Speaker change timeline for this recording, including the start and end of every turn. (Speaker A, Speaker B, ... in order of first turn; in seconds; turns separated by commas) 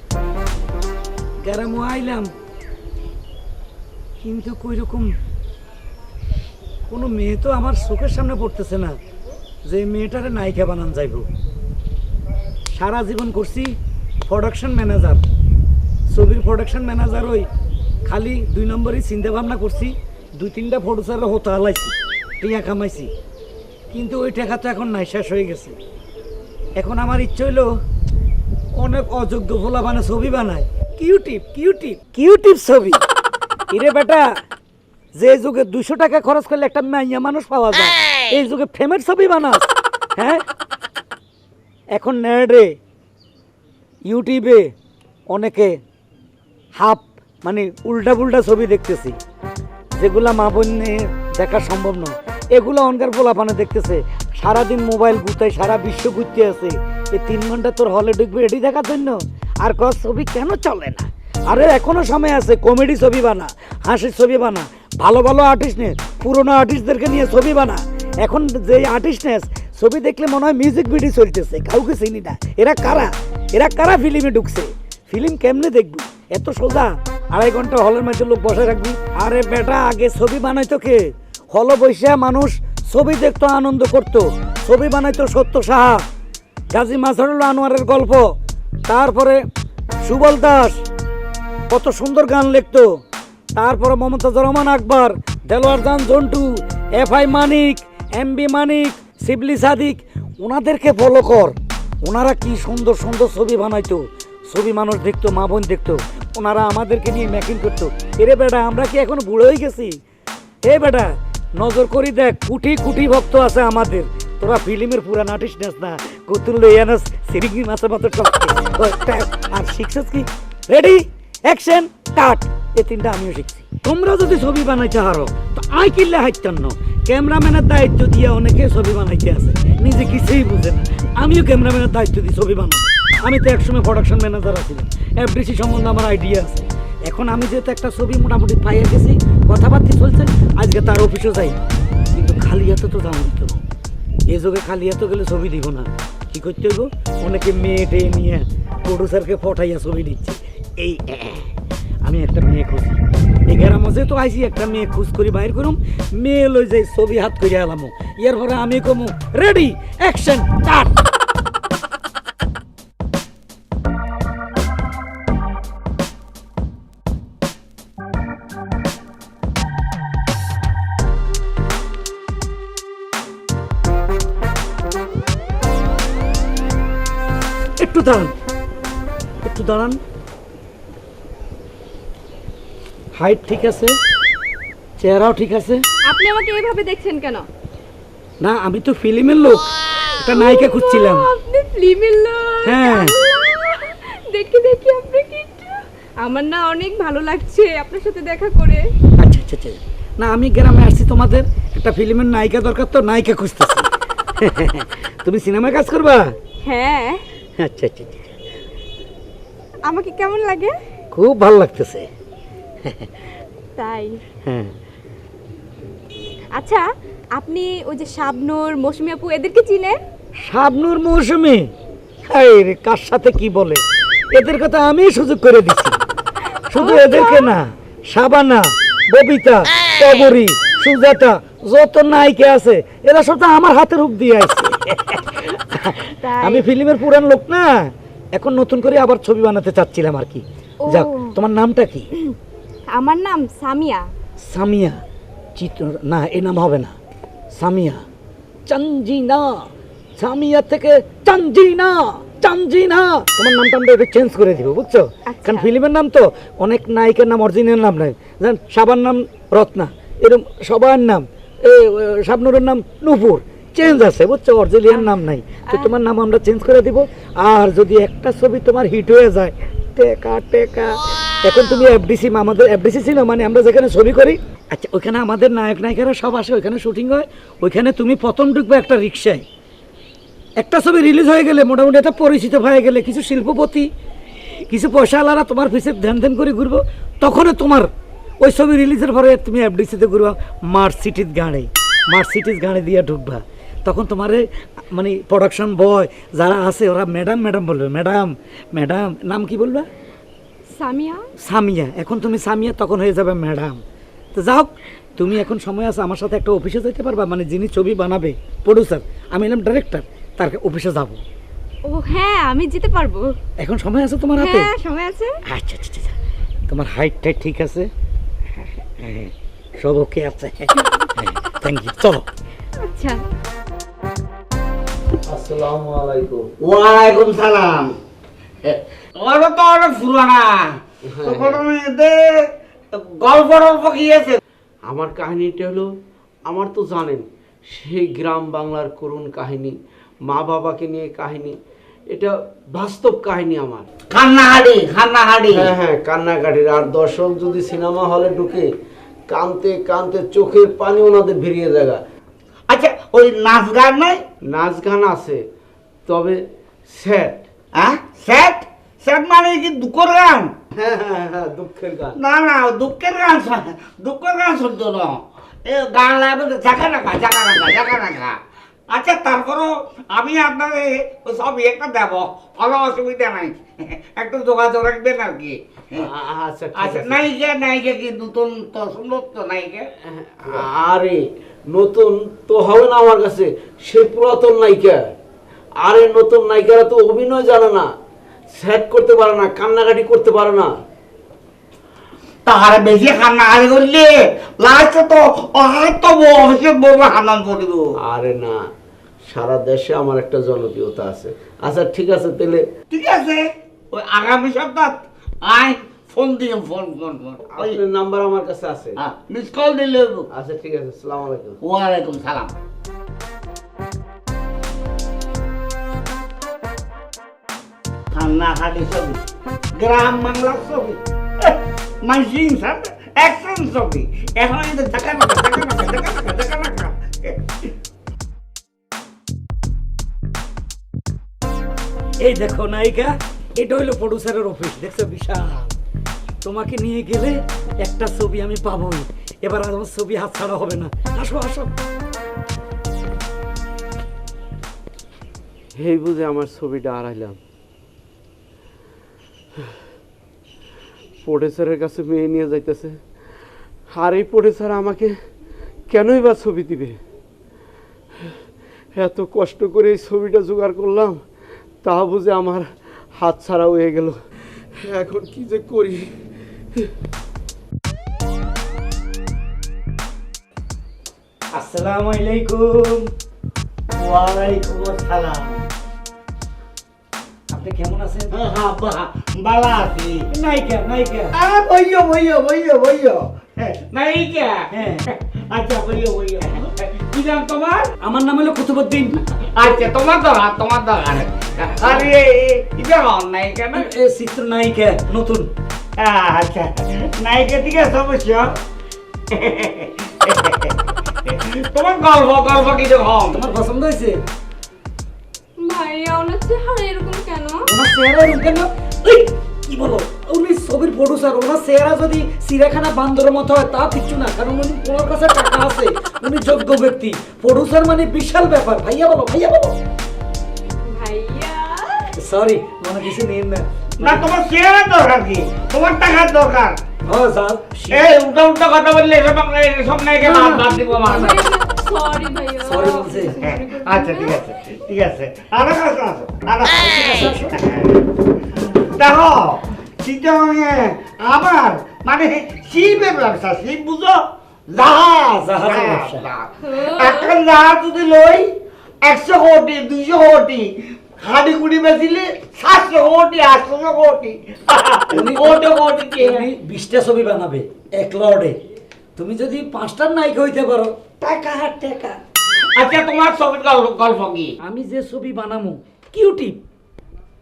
Speaker A: 1.4-2.3, Speaker A: 4.2-5.1, Speaker A: 6.9-9.0, Speaker A: 9.6-11.3, Speaker A: 12.7-15.2, Speaker A: 16.1-17.5, Speaker A: 18.0-23.1, Speaker A: 23.9-25.8, Speaker A: 26.8-27.7, Speaker A: 28.7-33.0, Speaker A: 33.7-34.3, Speaker A: 35.1-40.4, Speaker A: 41.9-42.7, Speaker A: 44.0-44.7, Speaker A: 45.3-45.8, Speaker A: 46.8-49.2, Speaker A: 50.0-86.0, Speaker A: 86.7-88.3, Speaker A: 88.8-89.4, Speaker A: 90.0-90.8, Speaker A: 91.7-93.0, Speaker A: 93.5-110.0, Speaker A: 110.6-141.6, Speaker A: 142.1-143.6, Speaker A: 144.3-151.5, Speaker A: 152.0-161.0, Speaker A: 177.8-178.3, Speaker A: 179.4-180.0, Speaker A: 183.1-184.0, Speaker A: 185.0-185.8, Speaker B: 186.0-187.4, Speaker A: 188.4-191.3, Speaker B: 190.3-198.8, Speaker A: 192.6-193.2, Speaker A: 199.2-206.3, Speaker B: 206.6-207.2, Speaker A: 207.6-208.3, Speaker B: 209.9-210.7, Speaker A: 211.1-212.1, Speaker A: 212.8-213.1, Speaker B: 213.8-214.2, Speaker A: 214.4-214.7, Speaker B: 216.5-220.0, Speaker A: 220.4-221.7, Speaker A: 222.3-226.0, Speaker A: 226.7-237.7, Speaker B: 226.8-227.4, Speaker B: 236.2-236.6, Speaker A: 238.3-242.1, Speaker B: 240.9-241.2, Speaker B: 242.9-244.0, Speaker A: 244.4-245.0, Speaker A: 245.6-246.9, Speaker A: 247.5-248.0, Speaker A: 248.7-249.7, Speaker A: 250.2-279.4, Speaker A: 280.6-283.9, Speaker A: 284.4-287.9, Speaker A: 288.4-299.9, Speaker B: 300.8-301.2, Speaker A: 301.4-303.8, Speaker A: 304.3-311.2, Speaker B: 311.9-313.3, Speaker A: 313.6-314.7, Speaker B: 314.4-315.3, Speaker A: 315.4-316.1, Speaker A: 316.7-317.9, Speaker A: 319.0-322.2, Speaker B: 322.8-323.2, Speaker C: 325.2-326.4, Speaker D: 326.6-327.9, Speaker D: 328.6-334.4, Speaker C: 331.2-331.6, Speaker C: 334.9-335.9, Speaker C: 336.4-341.6, Speaker C: 342.1-343.9, Speaker D: 344.1-345.7, Speaker C: 345.5-348.7, Speaker C: 349.3-352.0, Speaker D: 352.7-354.2, Speaker C: 354.4-355.4, Speaker C: 356.1-357.4, Speaker D: 357.7-360.5, Speaker C: 360.7-362.2, Speaker D: 362.2-368.4, Speaker D: 368.9-376.0, Speaker C: 375.9-377.3, Speaker D: 376.7-379.9, Speaker C: 380.2-385.0, Speaker C: 385.8-387.9, Speaker C: 388.5-390.7, Speaker D: 392.4-397.9, Speaker C: 398.0-398.6, Speaker C: 399.2-402.7, Speaker D: 402.9-407.8, Speaker C: 407.5-409.0, Speaker D: 409.0-410.3, Speaker C: 410.3-411.6, Speaker D: 411.6-412.5, Speaker D: 418.1-427.4, Speaker A: 432.2-435.7, Speaker A: 436.4-441.7, Speaker C: 445.8-447.4, Speaker C: 451.2-453.0, Speaker C: 453.9-455.1, Speaker C: 455.9-457.0, Speaker C: 458.9-461.2, Speaker C: 461.8-464.1, Speaker C: 464.8-466.1, Speaker A: 471.5-473.1, Speaker D: 473.9-475.6, Speaker A: 477.5-478.3, Speaker D: 478.3-480.2, Speaker A: 480.3-481.3, Speaker D: 481.3-487.9, Speaker A: 484.7-485.0, Speaker A: 488.0-489.2, Speaker D: 489.5-493.9, Speaker A: 493.7-495.5, Speaker D: 496.0-498.5, Speaker D: 499.3-503.4, Speaker A: 503.3-504.2, Speaker B: 505.6-507.6, Speaker A: 507.6-519.8, Speaker B: 520.9-522.0, Speaker A: 522.1-524.2, Speaker D: 524.0-526.8, Speaker A: 527.0-528.1, Speaker D: 527.9-538.0, Speaker A: 530.2-531.3, Speaker B: 531.5-531.8, Speaker A: 532.6-533.4, Speaker A: 536.7-537.5, Speaker D: 538.8-556.5, Speaker A: 545.5-546.2, Speaker A: 555.1-555.6, Speaker A: 556.2-558.6, Speaker A: 559.1-562.2, Speaker D: 562.8-564.6, Speaker A: 564.6-566.6